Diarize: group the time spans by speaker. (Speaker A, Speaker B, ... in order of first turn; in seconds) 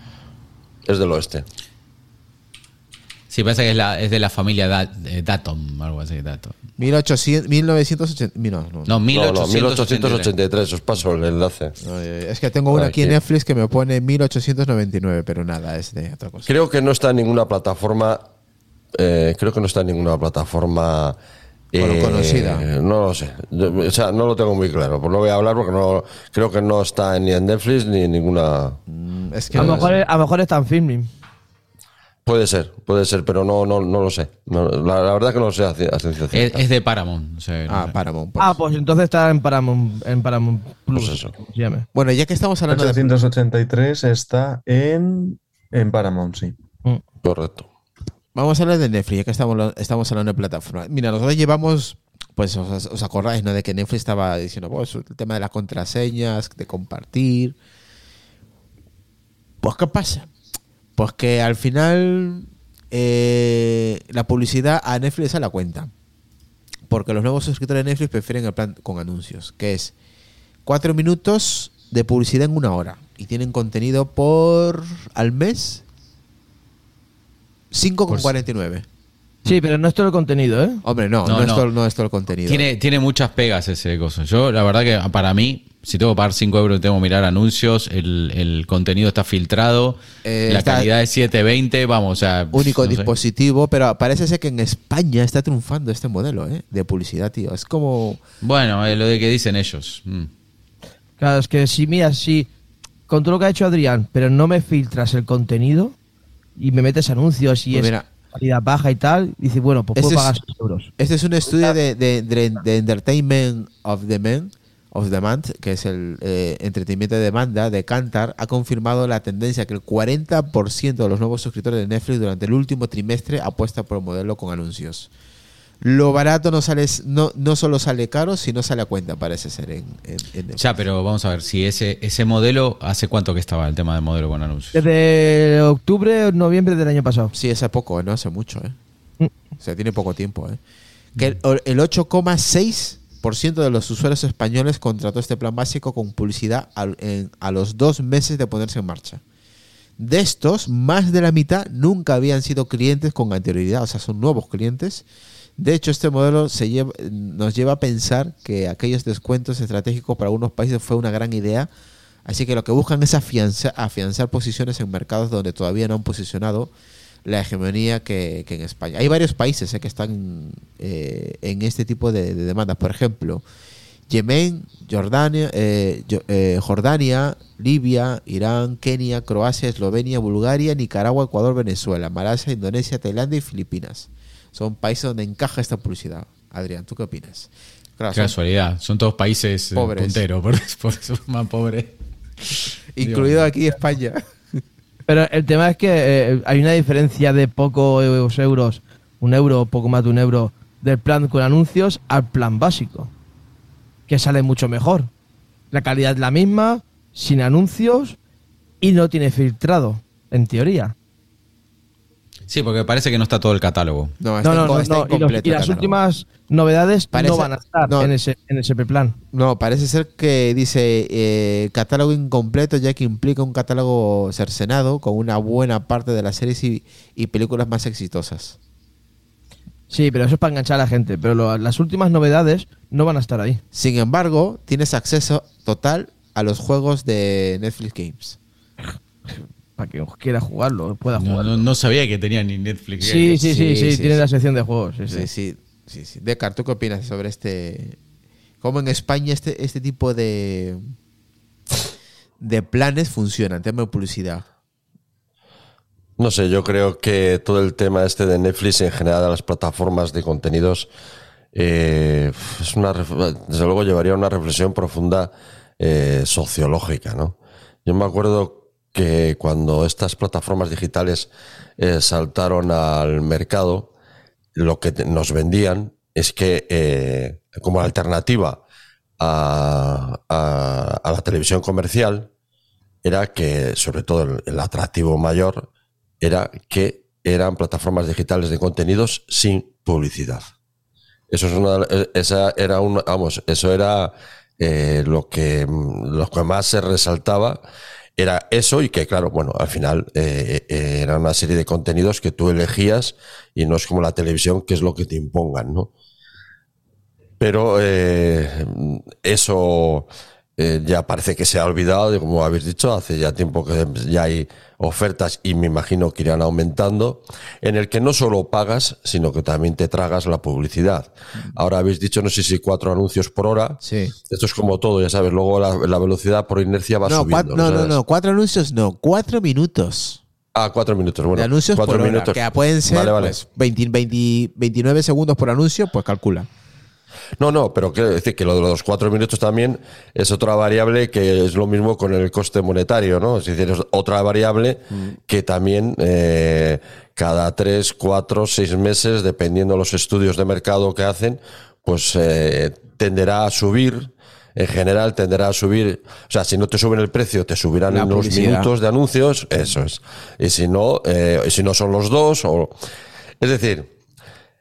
Speaker A: 0.8-1.4, 9.1-11.8, 12.7-13.1, 16.5-18.2, 18.9-21.2, 21.7-28.8, 29.5-29.9, 32.2-36.6, 40.9-41.3, 47.2-47.7, 256.2-260.9, 261.5-273.9, 274.6-278.6, 279.2-282.3, 283.0-285.7, 286.2-290.5, 291.3-297.6, 298.2-305.9, 307.4-328.0, 330.6-333.4, 337.4-362.7, 363.4-363.9
Speaker B: 3.3-6.6, 8.9-10.3, 36.3-37.9, 81.2-81.7, 82.5-93.1, 98.4-100.3, 130.6-134.8, 188.1-191.9, 193.0-193.5, 212.5-214.2, 241.2-243.4
Speaker C: 6.8-9.0, 11.8-16.5, 21.8-22.6, 28.9-30.0, 37.7-38.5, 41.9-43.2, 48.4-57.6, 59.6-60.3, 61.0-65.9, 66.9-69.9, 70.7-75.8, 77.7-78.9, 80.8-82.7, 90.2-90.9, 92.5-98.2, 107.7-108.1, 110.0-110.3, 111.0-125.1, 125.8-130.6, 137.3-138.8, 139.6-140.6, 141.2-149.2, 150.0-155.1, 155.6-161.7, 162.3-166.7, 167.2-173.4, 174.1-188.3, 189.8-190.2, 193.0-194.6, 214.2-216.0, 217.1-218.2, 219.3-228.6, 233.7-238.4, 243.4-244.2, 245.1-248.0, 248.6-250.9, 252.4-254.4, 323.8-324.1, 327.1-330.2, 331.3-336.5, 357.9-358.7
Speaker D: 29.6-31.1, 38.4-41.9, 79.5-80.8, 101.2-102.5, 103.1-106.0, 106.6-110.9, 134.8-137.3, 195.1-203.1, 204.1-205.1, 205.7-208.2, 208.8-210.9, 214.4-219.2, 229.9-233.6, 239.3-241.6, 243.0-245.3
Speaker E: 42.7-46.5